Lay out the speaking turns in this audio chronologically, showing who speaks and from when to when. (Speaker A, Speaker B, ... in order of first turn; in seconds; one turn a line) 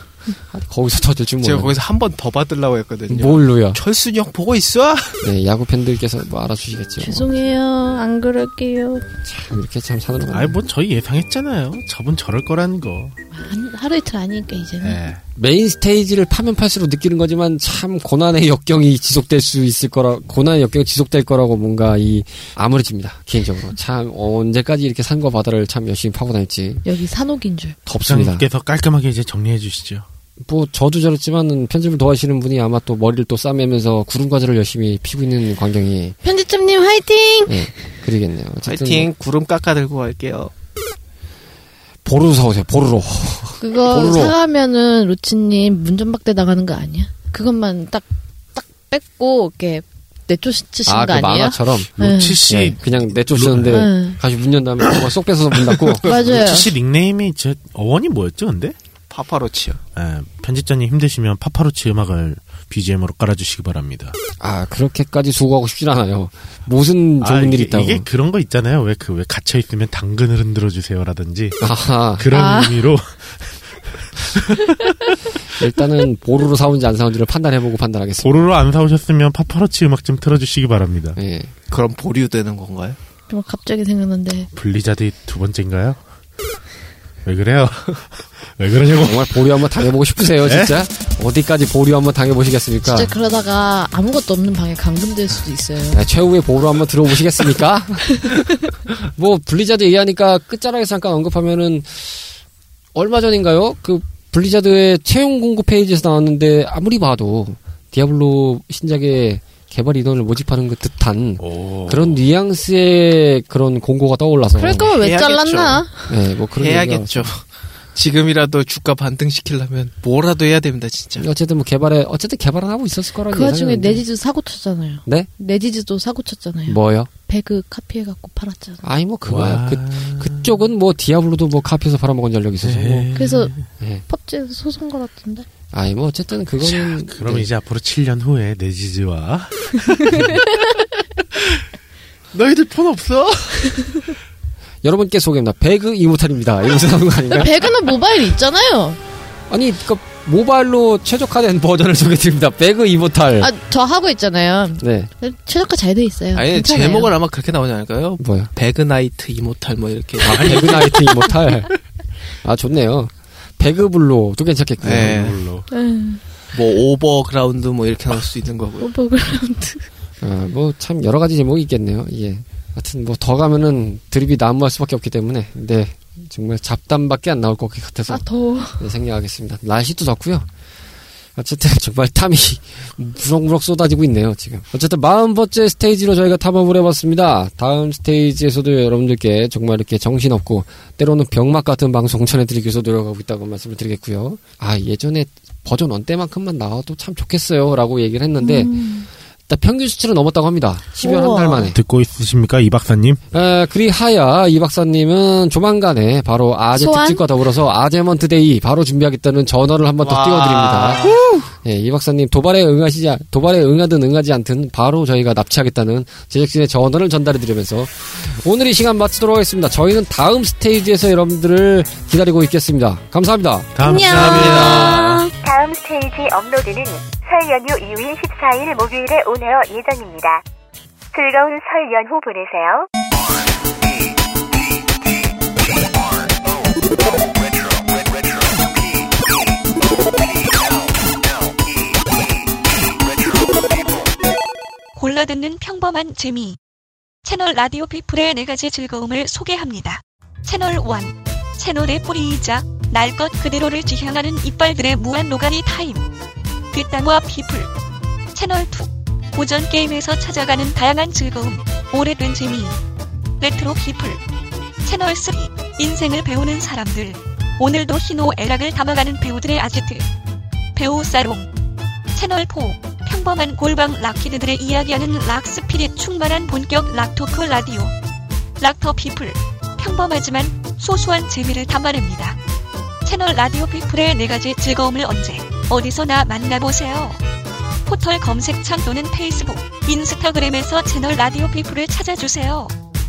Speaker A: 0.5-1.8
Speaker B: 1.4-5.2
Speaker A: 3.1-3.8
Speaker A: 5.2-7.3
Speaker C: 7.0-9.0
Speaker A: 9.2-10.6
Speaker D: 10.3-13.2
Speaker C: 13.3-15.0
Speaker D: 14.8-15.2
Speaker A: 15.3-26.8
Speaker C: 26.8-27.8
Speaker A: 27.9-28.4
Speaker D: 28.0-30.1
Speaker A: 30.4-36.1
Speaker C: 36.2-37.7
Speaker A: 37.5-39.1
Speaker B: 38.6-40.5
Speaker A: 42.0-44.4
Speaker C: 43.6-52.4
Speaker A: 50.9-56.0
Speaker D: 52.0-53.8
Speaker C: 53.7-54.2
Speaker C: 56.0-56.7
Speaker D: 56.0-58.8
Speaker B: 59.1-59.8
Speaker D: 60.0-64.2
Speaker A: 64.4-68.0
Speaker D: 67.2-71.6
Speaker A: 71.6-72.2
Speaker D: 72.2-75.2
Speaker C: 72.3-72.8
Speaker A: 75.6-78.5
Speaker D: 78.2-81.2
Speaker A: 81.2-81.5
Speaker B: 81.7-83.0
Speaker C: 83.3-84.5
Speaker D: 84.5-86.0
Speaker D: 87.2-89.8
Speaker A: 89.0-93.1
Speaker D: 90.4-90.8
Speaker C: 92.8-96.0
Speaker A: 95.9-98.2
Speaker A: 99.2-102.1
Speaker A: 102.9-114.9
Speaker D: 111.4-112.2
Speaker C: 114.6-116.1
Speaker B: 115.0-115.9
Speaker A: 116.1-117.3
Speaker B: 116.5-117.4
Speaker B: 117.9-121.2
Speaker A: 121.2-124.0
Speaker C: 123.3-128.8
Speaker A: 126.7-127.1
Speaker A: 128.8-133.1
Speaker D: 129.2-130.6
Speaker D: 132.6-133.5
Speaker C: 133.1-133.5
Speaker A: 133.8-134.1
Speaker C: 134.1-135.5
Speaker A: 135.7-137.5
Speaker D: 136.6-140.8
Speaker C: 140.1-140.8
Speaker D: 141.3-141.6
Speaker D: 142.3-143.7
Speaker A: 144.8-147.6
Speaker C: 147.3-149.0
Speaker A: 149.5-153.5
Speaker C: 153.4-157.1
Speaker A: 154.8-155.1
Speaker B: 156.3-160.9
Speaker A: 158.2-158.5
Speaker A: 160.2-161.7
Speaker D: 160.2-161.3
Speaker A: 162.4-165.3
Speaker B: 164.8-165.4
Speaker D: 164.8-165.7
Speaker C: 165.7-166.2
Speaker B: 166.5-168.9
Speaker C: 168.8-169.9
Speaker A: 170.2-178.2
Speaker C: 178.1-178.9
Speaker A: 178.8-180.5
Speaker A: 181.3-198.8
Speaker C: 198.4-199.1
Speaker A: 199.5-201.8
Speaker C: 201.0-201.7
Speaker D: 201.6-203.2
Speaker A: 203.3-211.0
Speaker C: 206.7-207.2
Speaker B: 210.0-211.4
Speaker A: 211.6-223.8
Speaker D: 223.8-225.3
Speaker C: 223.8-225.3
Speaker B: 224.2-224.9
Speaker E: 225.4-230.4
Speaker E: 231.1-232.9
Speaker F: 244.9-246.6
Speaker F: 247.2-256.0
Speaker F: 256.7-257.7
Speaker F: 258.3-262.8
Speaker F: 263.4-264.2
Speaker F: 264.8-270.1
Speaker F: 270.7-271.5
Speaker F: 272.1-277.9
Speaker F: 278.6-282.4
Speaker F: 283.0-287.2
Speaker F: 287.8-292.7